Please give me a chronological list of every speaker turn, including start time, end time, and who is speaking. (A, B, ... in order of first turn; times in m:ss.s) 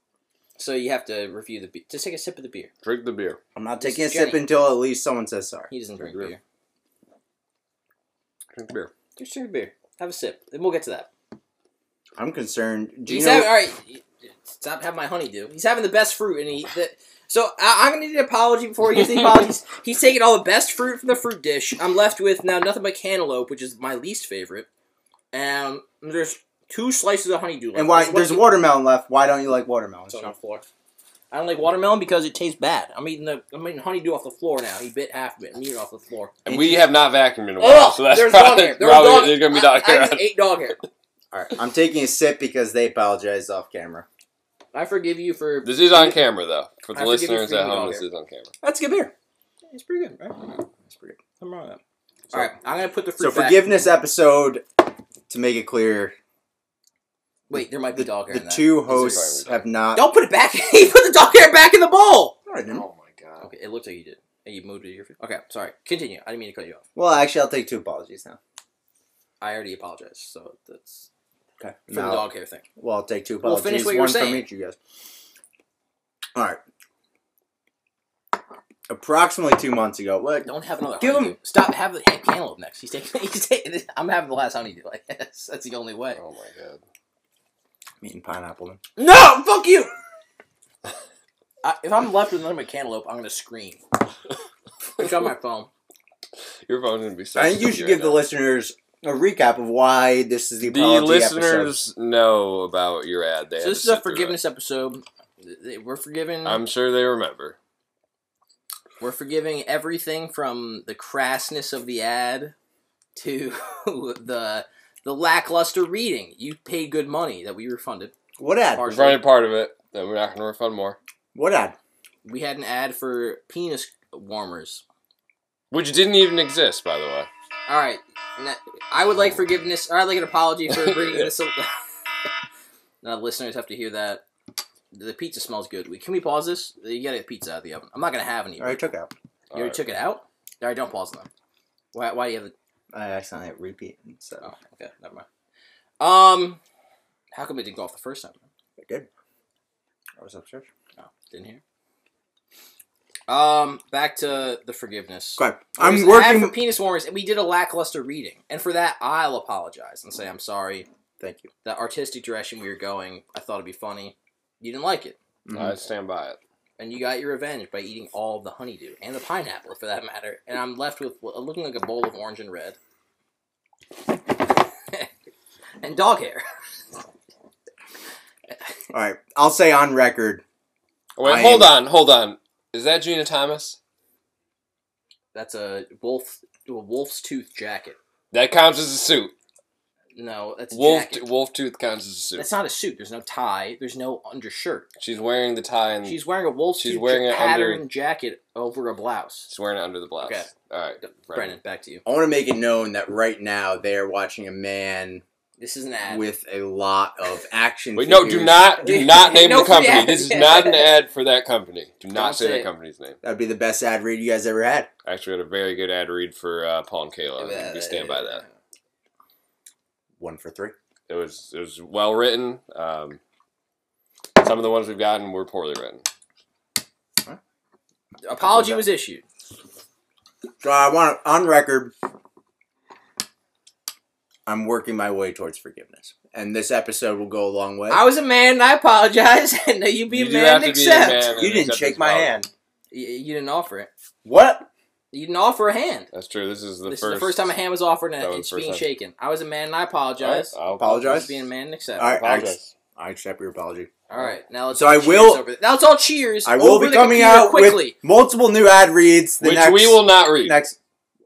0:00.6-0:02.7 A
0:02.8-0:03.4 B
0:03.5-0:05.7 C
0:03.8-0:04.4 A
0:05.7-0:06.4 A
0:06.0-0:06.3 B
0:08.5-0:08.9 B
0:09.2-0:11.1 A
0:12.2-0:13.5 C
0:13.1-0:24.7 A
0:25.3-0:28.5 A
0:27.7-0:30.3 C
0:30.1-0:30.6 A
0:31.3-0:36.4 A
0:36.4-0:40.3 B
0:36.5-0:36.8 C
0:37.6-0:40.8 A
0:41.3-0:44.0 C
0:44.7-0:46.2 A
0:45.6-0:48.5 B
0:46.9-0:48.0 A
0:48.6-0:49.1 C
0:49.7-0:50.6 A
0:50.9-0:51.2 C
0:51.4-0:51.8 A
0:52.3-0:53.9 A
0:53.2-0:54.6 C
0:55.3-0:56.1 C
0:57.5-1:02.4 A
0:57.5-1:00.0 C
0:58.8-0:59.6 B
1:02.5-1:02.8 C
1:02.7-1:03.5 B
1:03.4-1:06.8 A
1:06.9-1:08.4 C
1:09.4-1:11.1 A
1:11.6-1:14.8 C
1:11.9-1:12.6 A
1:13.4-1:14.5 A
1:16.3-1:16.6 C
1:18.9-1:21.3 C
1:20.4-1:26.2 A
1:26.1-1:26.8 B
1:28.0-1:28.8 C
1:29.0-1:29.9 A
1:31.6-1:33.8 A
1:35.0-1:35.7 A
1:36.6-1:38.2 B
1:37.4-1:41.8 C
1:40.6-1:44.4 B
1:43.6-1:46.6 A
1:46.4-1:47.6 B
1:49.0-1:52.5 A
1:53.2-1:58.1 A
1:58.4-1:58.9 C
1:58.8-1:59.2 A
1:58.9-2:01.0 B
2:01.3-2:01.8 C
2:02.2-2:04.8 A
2:05.7-2:07.3 B
2:07.7-2:11.8 A
2:10.7-2:11.3 B
2:13.0-2:14.2 A
2:14.9-2:18.8 A
2:18.6-2:19.1 C
2:19.5-2:19.8 B
2:19.5-2:21.3 A
2:21.9-2:22.5 A
2:22.9-2:24.5 C
2:24.4-2:25.2 A
2:26.0-2:26.6 A
2:27.3-2:28.4 A
2:28.8-2:29.1 C
2:30.2-2:30.7 C
2:31.0-2:31.6 A
2:33.3-2:40.9 A
2:35.4-2:36.6 C
2:41.2-2:41.5 C
2:41.6-2:45.2 A
2:45.4-2:45.7 C
2:45.5-2:46.4 B
2:46.8-2:52.8 A
2:55.8-2:56.4 A
2:58.9-3:00.4 C
3:01.2-3:03.8 B
3:01.2-3:01.7 C
3:05.3-3:08.0 A
3:08.3-3:09.3 B
3:10.1-3:11.3 A
3:10.7-3:12.5 B
3:12.4-3:14.9 A
3:15.0-3:16.2 B
3:16.0-3:19.5 A
3:16.8-3:17.8 B
3:19.5-3:21.6 B
3:20.2-3:22.0 A
3:22.0-3:25.2 C
3:25.6-3:26.2 A
3:26.0-3:28.7 C
3:28.0-3:33.2 B
3:28.8-3:31.0 A
3:32.1-3:32.7 A
3:33.2-3:34.9 C
3:35.0-3:38.4 B
3:37.4-3:38.5 A
3:40.2-3:40.7 C
3:41.1-3:43.2 B
3:44.4-3:46.0 B
3:48.2-3:49.2 A
3:48.4-3:48.8 C
3:50.6-3:51.9 C
3:54.4-3:58.0 C
3:57.9-4:01.4 A
4:00.1-4:02.4 B
4:01.2-4:02.5 C
4:02.9-4:03.9 A
4:04.2-4:04.7 C
4:05.1-4:06.1 A
4:06.1-4:07.6 B
4:06.8-4:12.2 A
4:08.2-4:08.8 B
4:10.2-4:11.3 B
4:10.8-4:11.4 C
4:12.0-4:14.0 C
4:12.0-4:12.7 B
4:14.1-4:18.0 A
4:14.7-4:15.4 C
4:16.4-4:20.8 C
4:19.4-4:20.6 B